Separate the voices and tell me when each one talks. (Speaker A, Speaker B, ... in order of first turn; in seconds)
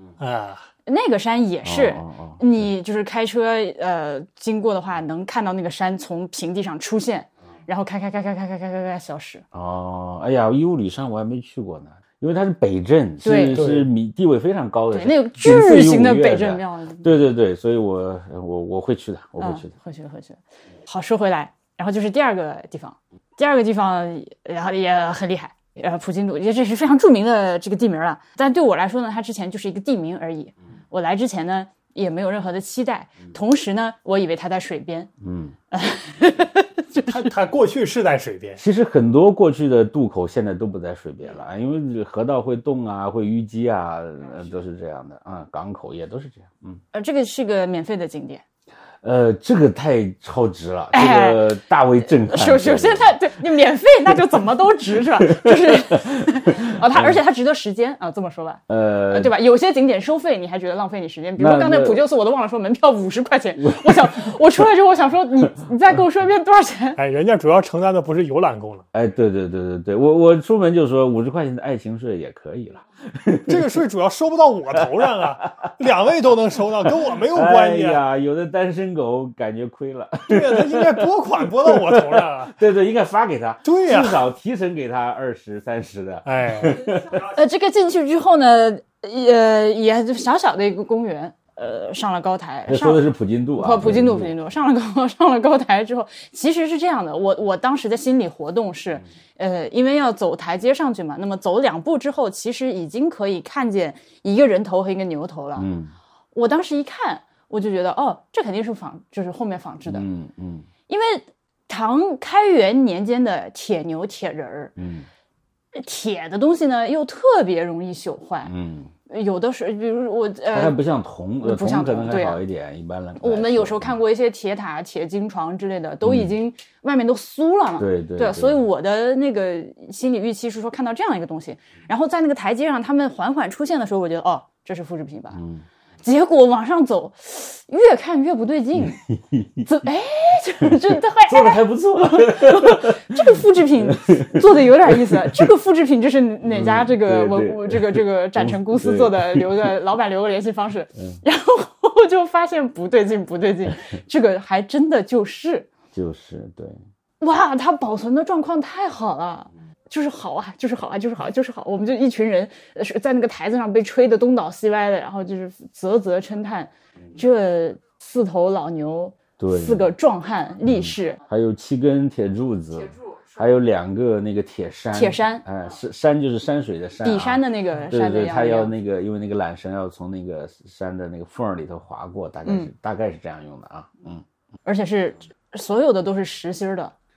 Speaker A: 0.2-0.7, 13.5-13.9, 37.1-38.6, 67.0-68.8, 73.5-78.0, 80.3-82.6, 83.6-84.2, 86.2-86.8
Speaker B: 0.9-9.4, 13.2-13.6, 14.9-17.1, 19.4-35.1, 35.7-37.2, 46.9-48.4, 50.9-51.5, 52.0-67.0, 87.1-93.0, 93.6-105.7, 106.3-110.0, 110.9-114.7, 115.7-118.5, 119.1-120.8, 121.4-122.4, 123.2-135.4, 136.0-139.0, 139.6-155.7, 157.2-171.2, 174.9-175.4, 177.0-178.7, 184.7-186.9
Speaker C: 1.6-2.6, 9.5-19.7, 35.2-35.5, 38.6-46.8, 49.0-53.2, 55.2-57.2, 58.7-59.3, 61.4-62.0, 63.6-64.1, 68.9-73.8, 74.7-75.3, 76.8-87.2, 92.7-94.3, 105.6-105.9, 109.9-110.7, 114.8-115.1, 118.5-118.9, 120.5-123.9, 126.0-126.3, 127.8-128.6, 135.3-135.6, 138.8-139.7, 141.2-145.4, 146.4-149.7, 155.9-156.8, 169.4-169.9, 170.7-184.2